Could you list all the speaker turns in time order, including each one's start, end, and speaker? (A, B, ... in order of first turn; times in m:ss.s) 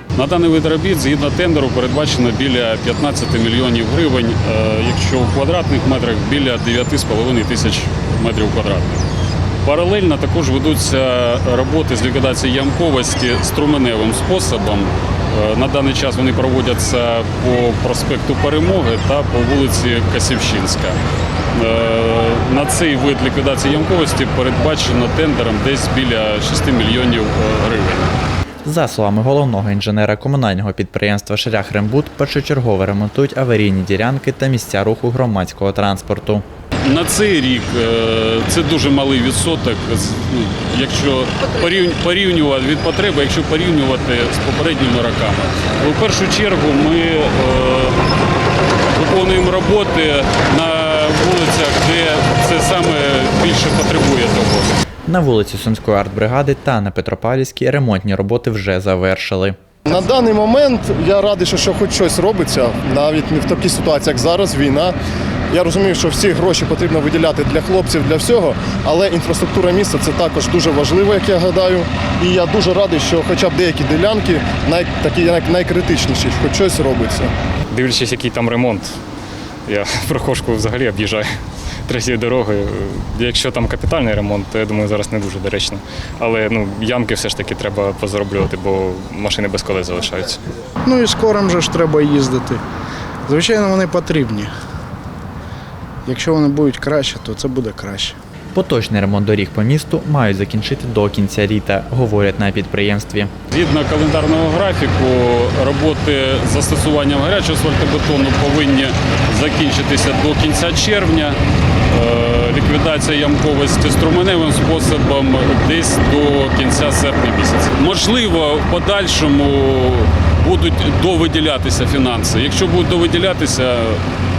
0:00.2-0:09.0 A
0:09.6-0:21.0 A
0:21.5-0:28.1 A
0:28.6-0:36.4 B
0:36.8-0:48.0 A
0:48.9-0:54.8 A
0:55.1-0:59.6 B
0:59.9-1:05.0 C
1:05.5-1:17.3 C
1:17.7-1:19.0 D
1:19.7-1:21.3 D
1:21.9-1:30.4 D
1:30.8-1:32.6 E
1:33.2-1:34.5 E
1:36.0-1:38.2 E
1:38.5-1:43.3 B
1:43.5-1:51.4 A
1:51.9-2:04.0 A